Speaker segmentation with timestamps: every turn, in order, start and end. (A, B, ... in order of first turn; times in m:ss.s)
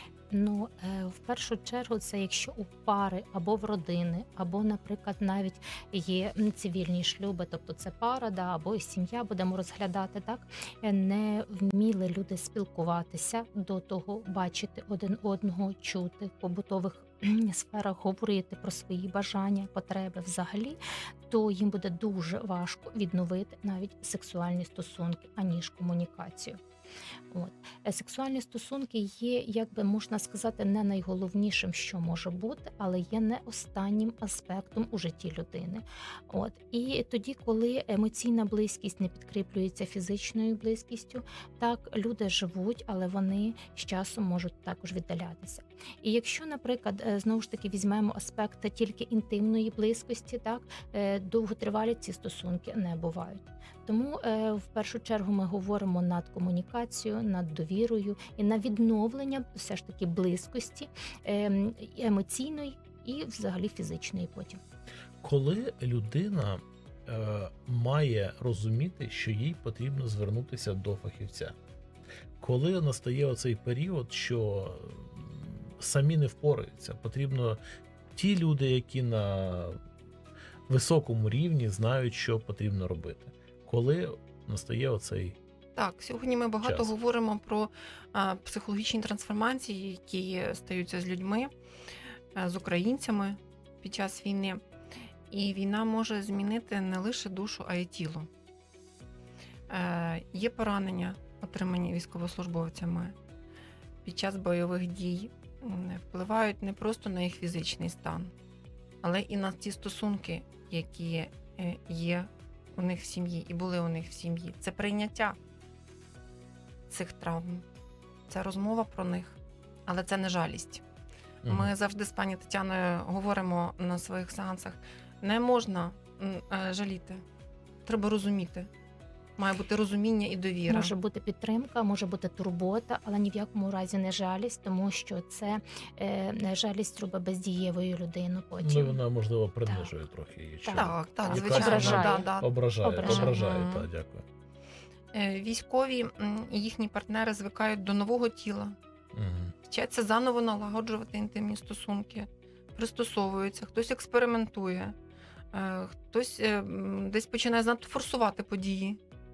0:00.3-0:20.8 A
0:21.3-0:26.6 A
0:27.3-1:04.6 A
1:05.2-1:11.6 B
1:12.4-1:17.6 B
1:18.2-1:19.8 B
1:20.7-1:25.4 B
1:25.8-1:31.5 C
1:26.6-1:26.9 B
1:32.4-1:34.6 C
1:35.3-1:38.3 C
1:39.7-1:43.2 C
1:44.0-1:48.3 C
1:49.0-1:55.4 C
1:56.9-1:57.6 C
1:58.3-2:00.8 C
2:01.4-2:07.2 C
2:01.4-2:01.7 B
2:07.9-2:08.7 C
2:09.4-2:10.9 C
2:10.7-2:19.0 A
2:18.6-2:24.2 B
2:19.7-2:19.9 A
2:20.6-2:22.3 A
2:20.7-2:23.9 C
2:22.8-2:23.4 A
2:25.1-2:28.8 C
2:29.1-2:29.5 B
2:29.7-2:35.0 C
2:35.5-2:39.0 C